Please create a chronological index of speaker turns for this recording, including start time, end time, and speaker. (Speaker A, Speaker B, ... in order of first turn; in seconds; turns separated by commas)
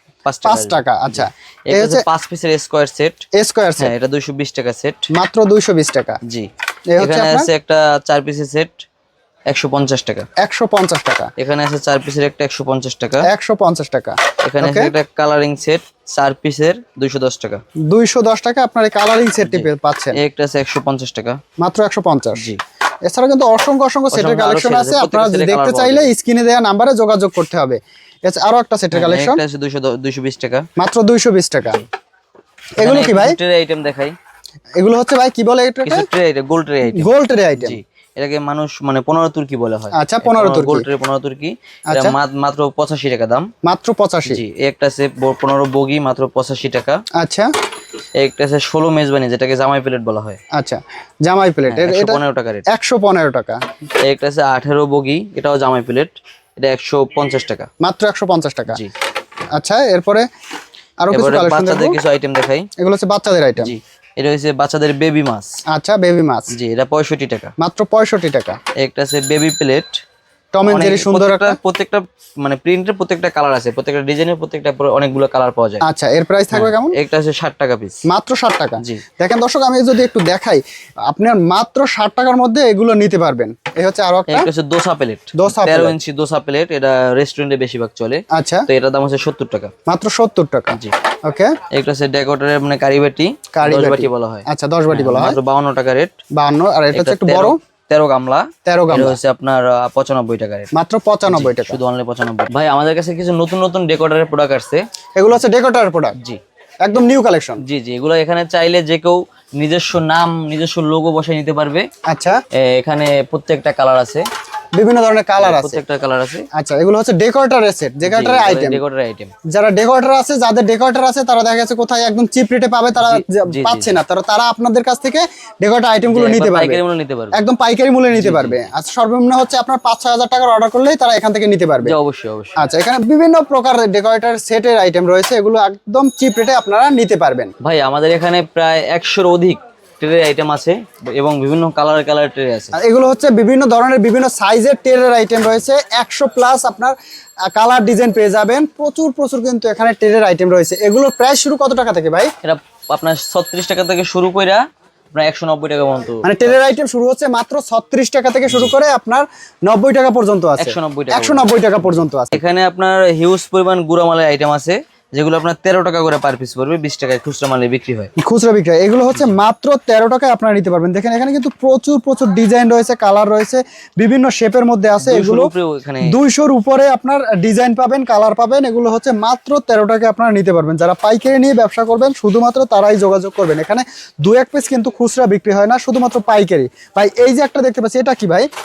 Speaker A: 0.2-3.2, Speaker B: 0.4-2.0, Speaker B: 3.4-3.9, Speaker A: 3.8-5.1, Speaker B: 5.1-6.2, Speaker A: 6.2-8.8, Speaker B: 6.9-7.5, Speaker A: 9.5-10.2, Speaker B: 10.4-11.3, Speaker A: 11.4-13.3, Speaker B: 13.2-14.9, Speaker A: 14.4-17.6, Speaker B: 17.9-20.2, Speaker A: 19.4-21.4, Speaker B: 21.6-22.5, Speaker B: 23.1-29.4, Speaker A: 24.1-26.1, Speaker A: 28.9-30.7, Speaker B: 30.8-31.8, Speaker B: 32.8-33.4, Speaker A: 32.8-34.1, Speaker B: 34.8-36.0, Speaker A: 35.8-43.5, Speaker B: 36.9-37.8, Speaker B: 39.9-40.9, Speaker B: 43.6-44.4, Speaker A: 44.2-47.0, Speaker B: 47.2-47.5, Speaker A: 48.2-50.4, Speaker B: 50.5-53.6, Speaker A: 51.7-52.6, Speaker A: 54.0-57.7, Speaker B: 57.8-58.8, Speaker B: 59.5-60.2, Speaker B: 61.0-62.0, Speaker A: 61.1-62.7, Speaker B: 62.8-63.7, Speaker A: 63.6-65.6, Speaker B: 65.7-66.5, Speaker A: 66.5-67.5, Speaker B: 67.6-68.6, Speaker A: 68.8-70.0, Speaker B: 70.5-71.6, Speaker A: 70.7-75.8, Speaker B: 75.8-77.0, Speaker A: 76.5-78.0, Speaker B: 78.0-84.5, Speaker A: 84.3-89.7, Speaker B: 85.3-86.0, Speaker B: 88.3-88.7, Speaker B: 89.9-91.5, Speaker A: 91.7-96.2, Speaker B: 93.5-95.4, Speaker B: 96.3-97.6, Speaker A: 96.9-100.7, Speaker B: 98.7-99.2, Speaker B: 100.7-101.8, Speaker A: 101.3-104.8, Speaker B: 105.2-106.2, Speaker B: 106.8-107.6, Speaker A: 107.6-111.9, Speaker B: 112.1-112.4, Speaker A: 112.5-114.2, Speaker B: 114.7-115.8, Speaker A: 115.4-116.5, Speaker B: 116.5-118.8, Speaker A: 118.0-119.3, Speaker B: 119.5-126.8, Speaker A: 123.0-124.0, Speaker A: 126.1-127.3, Speaker B: 127.3-131.9, Speaker A: 128.1-128.7, Speaker A: 131.8-132.6, Speaker B: 132.6-137.5, Speaker A: 137.6-142.8, Speaker B: 142.7-146.9, Speaker B: 147.5-152.3, Speaker A: 152.4-156.6, Speaker B: 156.2-162.4, Speaker A: 158.5-158.7, Speaker A: 160.6-168.1, Speaker B: 168.2-175.5, Speaker A: 175.0-176.1, Speaker B: 176.0-188.5